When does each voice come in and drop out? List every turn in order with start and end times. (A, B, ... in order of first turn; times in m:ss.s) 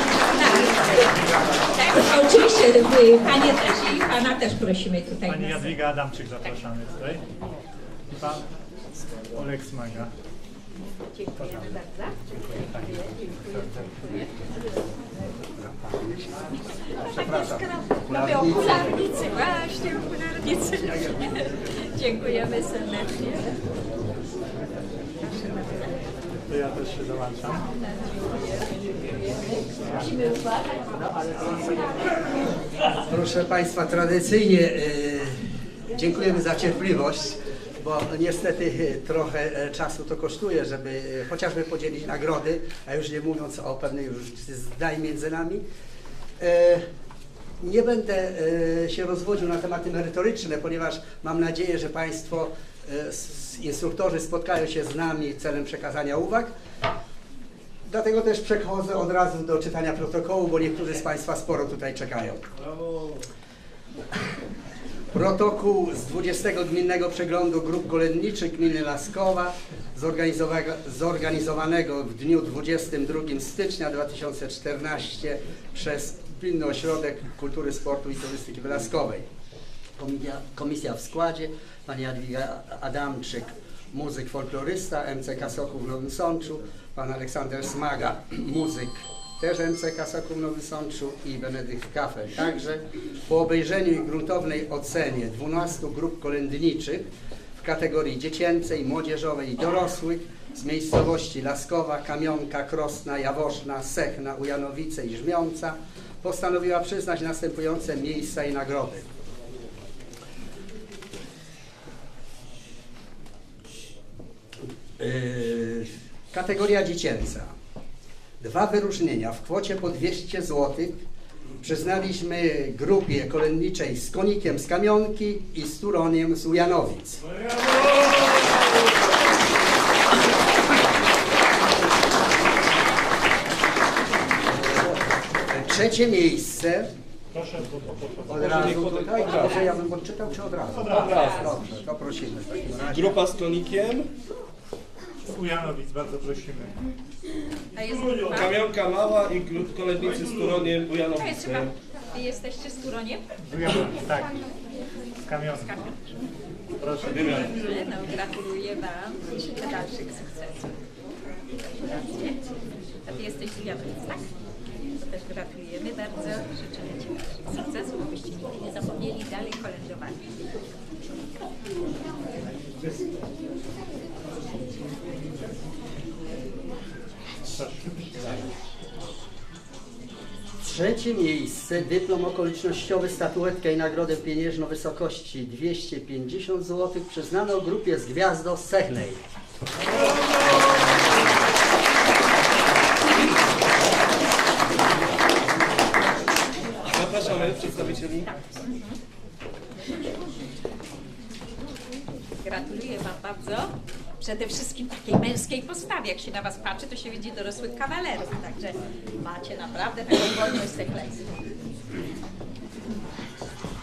0:00.3-0:05.8 A
0:05.3-0:07.2 B
0:08.1-0:08.4 B
0:09.3-0:10.1 B
0:11.1-0:14.3 A
0:15.6-0:16.4 C
0:17.0-0:23.6 A
0:17.0-0:17.5 C
0:18.1-0:18.9 C
0:25.2-0:26.0 A
0:26.5-0:27.7 B
0:27.7-0:30.8 A
0:31.2-0:31.9 B
0:33.0-0:45.6 C
0:46.4-0:46.8 C
0:47.6-0:56.5 C
0:57.9-1:02.4 C
1:02.6-1:03.2 D
1:05.1-1:19.3 C
1:20.0-1:49.1 C
1:55.0-1:57.5 C
1:58.4-2:01.0 C
2:01.6-2:07.2 C
2:15.5-2:16.9 C
2:17.3-2:18.8 B
2:18.3-2:23.2 C
2:18.4-2:19.7 D
2:20.7-2:21.1 B
2:20.9-2:21.5 D
2:21.0-2:21.5 A
2:22.9-2:24.1 D
2:25.3-2:26.7 B
2:27.7-2:28.6 A
2:28.3-2:31.7 D
2:31.2-2:33.2 A
2:33.4-2:34.3 B
2:35.2-2:35.7 B
2:35.5-2:36.2 A
2:36.8-2:37.5 B
2:37.0-2:37.5 D
2:37.4-2:40.8 A
2:41.9-2:42.4 A
2:43.0-2:44.3 A
2:44.9-2:50.2 A
2:57.5-2:58.2 B
3:00.6-3:09.2 C
3:16.8-3:18.3 D
3:18.6-3:19.0 A
3:22.4-3:31.3 A